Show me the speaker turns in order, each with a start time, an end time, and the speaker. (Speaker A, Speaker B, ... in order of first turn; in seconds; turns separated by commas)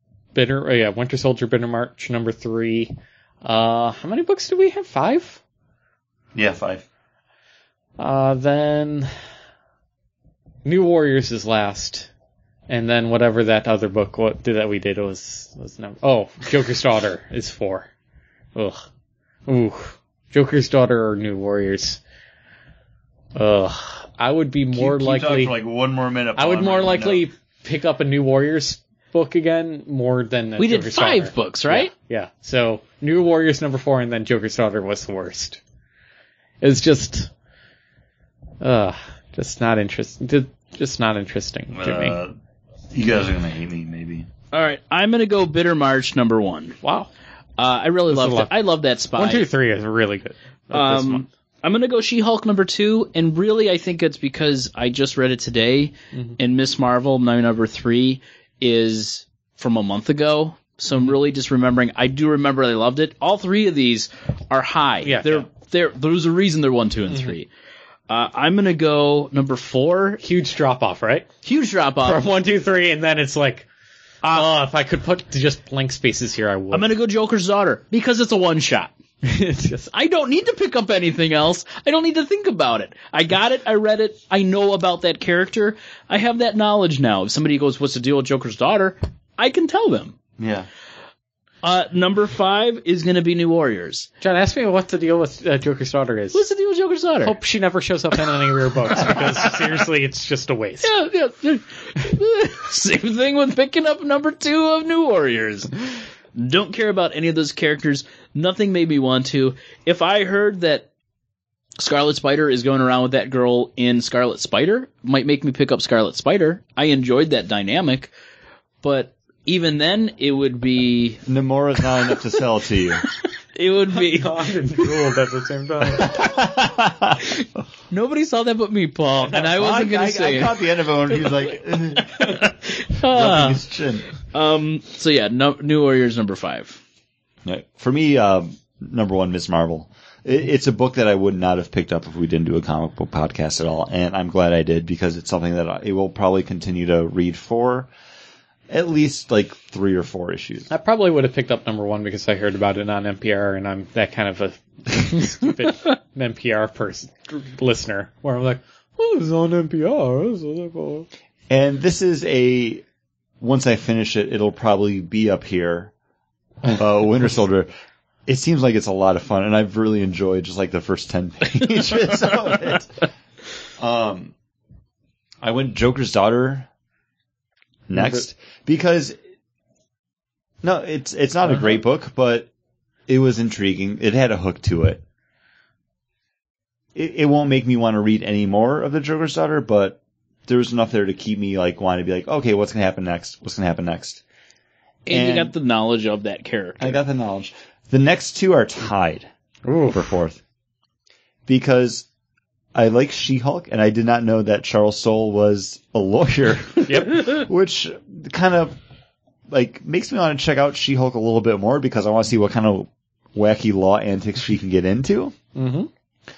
Speaker A: 0.3-5.4, Speaker B: 6.3-6.9, Speaker A: 8.0-9.1, Speaker A: 10.7-12.1, Speaker A: 12.7-17.9, Speaker A: 18.6-18.9, Speaker A: 19.5-22.0, Speaker A: 23.4-25.6, Speaker B: 24.7-27.2, Speaker A: 26.4-35.6, Speaker C: 30.6-31.9, Speaker A: 36.6-37.3, Speaker A: 38.6-42.2, Speaker B: 41.7-42.4, Speaker B: 42.9-44.3, Speaker C: 44.5-46.8, Speaker A: 46.8-47.1, Speaker C: 47.6-49.5, Speaker A: 48.1-48.6, Speaker A: 49.1-51.3, Speaker C: 50.7-67.5, Speaker A: 56.1-56.4, Speaker A: 65.0-65.5, Speaker C: 68.1-70.2, Speaker A: 70.2-71.3, Speaker C: 71.4-72.3, Speaker A: 72.0-73.7, Speaker C: 74.2-74.5, Speaker A: 74.3-76.9, Speaker C: 76.7-78.9, Speaker A: 79.2-79.9, Speaker C: 79.9-90.2, Speaker B: 90.4-90.7, Speaker C: 91.6-94.1, Speaker A: 94.2-96.4, Speaker C: 96.3-97.4, Speaker A: 97.2-100.9, Speaker C: 98.9-99.7, Speaker C: 100.8-105.8, Speaker C: 106.3-110.9, Speaker C: 111.8-118.1, Speaker C: 118.8-121.2, Speaker B: 121.3-123.0, Speaker C: 123.0-125.1, Speaker A: 123.9-126.3, Speaker B: 125.9-127.3, Speaker C: 127.2-133.6, Speaker B: 129.2-132.5, Speaker B: 133.0-134.1, Speaker C: 134.2-136.8, Speaker B: 137.4-147.9, Speaker B: 148.7-150.7, Speaker A: 150.7-161.1, Speaker B: 161.5-162.8, Speaker B: 163.4-165.9, Speaker B: 166.6-167.7, Speaker B: 168.3-173.0, Speaker C: 171.6-172.8, Speaker B: 173.8-174.3, Speaker B: 175.4-176.7, Speaker B: 177.9-179.2, Speaker B: 180.6-182.5, Speaker B: 183.1-185.0, Speaker B: 186.9-194.2, Speaker C: 195.1-197.0, Speaker B: 195.1-195.5, Speaker B: 196.8-199.3, Speaker A: 199.7-200.1, Speaker B: 199.9-200.4, Speaker B: 201.5-202.1, Speaker B: 202.8-208.8, Speaker A: 206.9-207.3, Speaker B: 209.5-215.3, Speaker A: 215.6-215.9